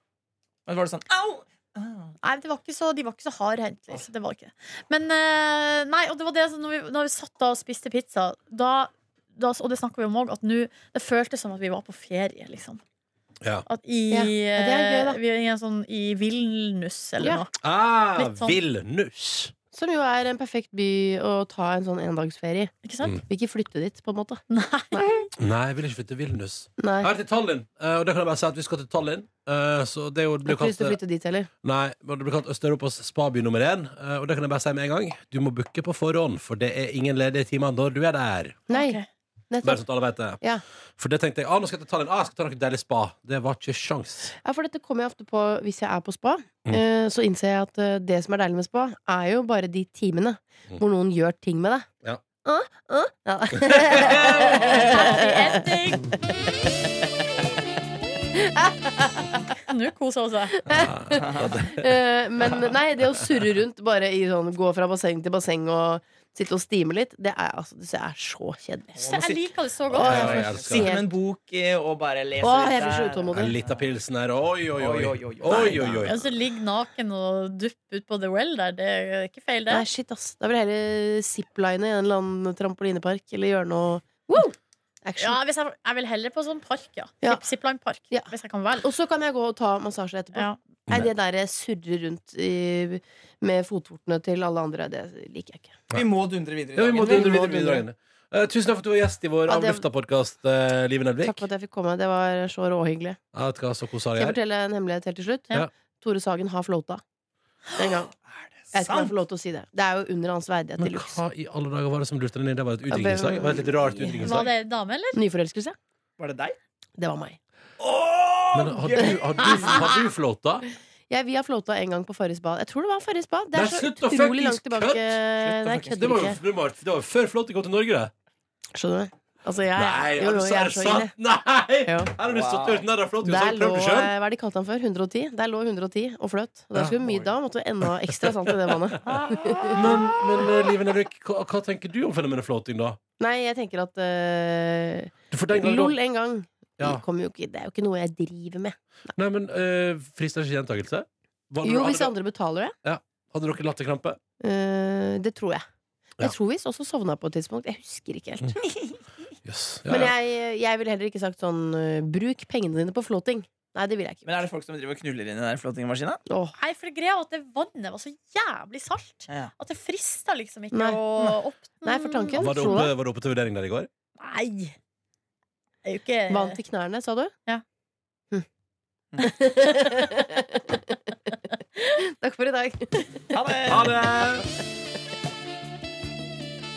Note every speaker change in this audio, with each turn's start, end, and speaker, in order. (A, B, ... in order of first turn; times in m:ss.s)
0:00.6-0:02.1 A
0:02.2-0:12.8 B
0:13.7-0:17.5 B
0:14.1-0:15.2 C
0:17.6-0:19.5 D
0:18.2-0:18.6 B
0:19.7-0:22.7 C
0:22.8-0:23.2 B
0:23.3-0:24.4 C
0:24.5-0:25.3 B
0:24.9-0:25.2 C
0:25.4-0:31.0 D
0:26.8-0:27.1 C
0:30.4-0:31.5 C
0:31.6-0:38.7 D
0:38.7-0:39.8 C
0:38.7-0:39.0 B
0:39.6-0:40.4 D
0:41.0-0:44.3 D
0:44.4-0:51.9 C
0:52.4-0:56.0 C
0:53.5-0:54.5 D
0:54.0-0:54.8 A
0:54.4-0:56.1 B
0:58.3-0:59.4 C
0:59.6-1:00.6 B
1:00.5-1:09.0 C
1:00.7-1:02.7 D
1:01.1-1:01.6 A
1:09.0-1:13.8 A
1:09.0-1:10.6 B
1:09.9-1:10.9 D
1:09.9-1:11.1 C
1:12.4-1:13.5 C
1:13.3-1:16.3 D
1:14.7-1:16.0 A
1:15.5-1:16.0 C
1:16.0-1:19.8 B
1:19.7-1:25.4 C
1:25.2-1:28.8 B
1:28.1-1:35.8 C
1:30.3-1:30.6 B
1:35.9-1:37.4 A
1:36.7-1:41.4 D
1:37.0-1:37.8 C
1:39.5-1:39.8 C
1:41.2-1:43.2 C
1:43.3-1:44.4 D
1:44.2-1:47.0 C
1:47.8-1:48.1 C
1:48.3-1:49.2 A
1:48.7-1:51.2 C
1:50.8-1:54.5 D
1:52.9-1:54.5 C
1:54.2-1:55.2 B
1:55.1-1:55.8 C
1:56.2-1:56.6 A
1:57.0-1:57.4 C
1:57.8-1:59.8 A
1:58.5-2:00.6 D
1:59.0-2:00.0 C
2:01.1-2:06.4 C
2:03.5-2:05.2 D
2:05.4-2:06.2 A
2:05.9-2:08.1 D
2:08.8-2:11.1 C
2:09.8-2:14.1 D
2:12.2-2:12.8 A
2:13.2-2:19.9 C
2:17.0-2:17.3 A
2:17.8-2:19.0 D
2:19.0-2:20.0 A
2:19.7-2:23.0 D
2:23.2-2:28.8 C
2:25.3-2:25.9 D
2:26.8-2:27.0 D
2:29.2-2:32.1 D
2:31.6-2:32.7 C
2:32.8-2:34.2 D
2:34.4-2:35.6 C
2:36.2-2:38.5 C
2:38.6-2:39.0 A
2:39.4-2:40.1 D
2:39.9-2:44.4 C
2:44.2-2:46.2 A
2:46.3-2:46.6 C
2:46.6-2:52.9 B
2:50.7-2:51.0 C
2:51.8-2:52.9 C
2:52.4-2:53.9 D
2:54.2-2:54.8 B
2:55.8-2:56.6 B
2:56.3-2:57.3 C
2:59.2-3:04.4 C
3:03.3-3:04.4 A
3:03.7-3:04.2 D